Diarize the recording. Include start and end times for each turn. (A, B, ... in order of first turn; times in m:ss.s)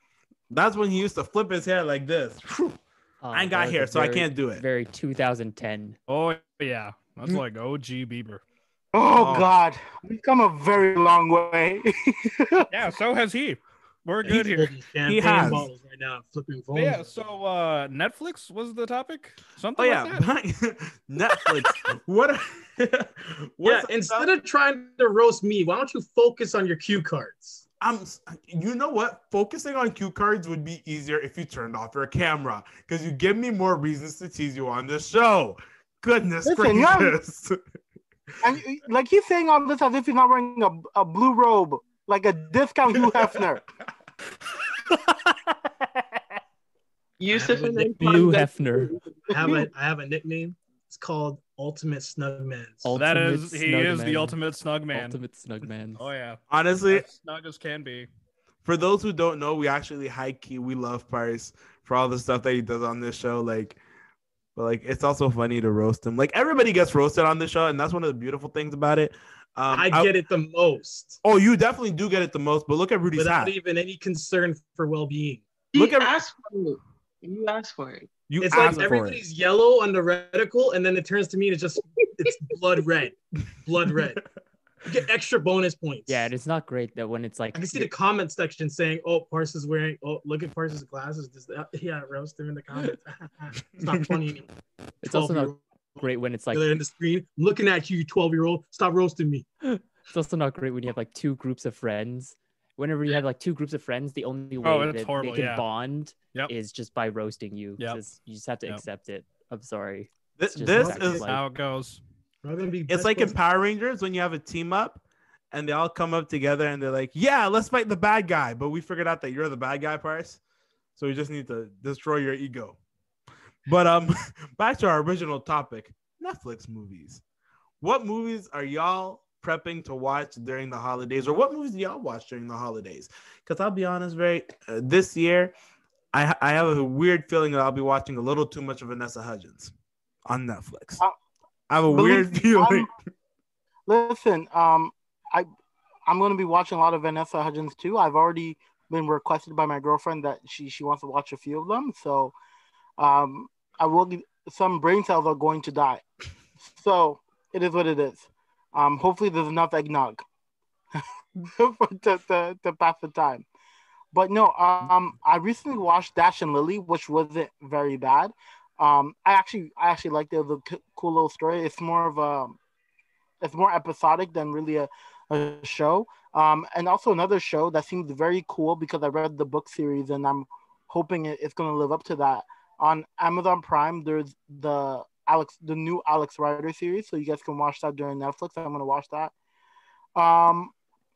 0:00.5-0:02.8 A
0:03.2-0:06.0 B
0:03.3-0:04.6 A
0:06.1-0:08.4 C
0:08.9-0:12.7 D
0:09.2-0:09.5 A
0:12.7-0:14.8 C
0:14.2-0:17.1 E
0:15.1-0:15.7 A
0:16.7-0:20.3 C
0:19.8-0:24.3 A
0:23.6-0:27.6 E
0:27.8-0:37.6 A
0:36.4-0:37.2 D
0:38.4-0:43.6 D
0:44.9-0:45.4 C
0:47.2-0:49.6 F
0:47.3-0:48.2 E
0:47.8-0:48.9 B
0:49.3-0:52.9 E
0:52.8-0:54.4 B
0:53.0-0:55.2 C
0:54.9-0:56.0 B
0:56.0-0:58.1 C
0:56.5-0:57.0 A
0:58.6-1:03.8 A
1:04.6-1:10.1 A
1:09.7-1:11.2 E
1:11.2-1:13.5 A
1:13.1-1:15.5 E
1:15.7-1:18.2 F
1:15.8-1:16.1 A
1:18.3-1:19.2 A
1:18.4-1:24.2 E
1:24.9-1:26.3 E
1:26.1-1:27.9 B
1:27.5-1:34.5 E
1:35.0-1:36.7 B
1:35.0-1:39.5 E
1:39.6-1:51.4 B
1:44.6-1:45.6 C
1:50.4-1:51.3 A
1:50.8-1:51.2 E
1:51.2-1:52.0 C
1:52.4-1:53.3 E
1:52.9-2:00.4 A
2:01.0-2:02.8 A
2:03.7-2:07.2 A
2:07.8-2:15.5 A
2:16.1-2:19.7 A
2:20.2-2:21.0 A
2:21.7-2:22.9 A
2:21.9-2:22.9 D
2:23.9-2:25.5 D
2:26.1-2:32.4 D
2:33.0-2:36.0 D
2:36.6-2:40.2 D
2:41.0-2:43.5 D
2:44.1-2:52.6 D
2:53.4-3:09.3 D
3:10.2-3:10.7 D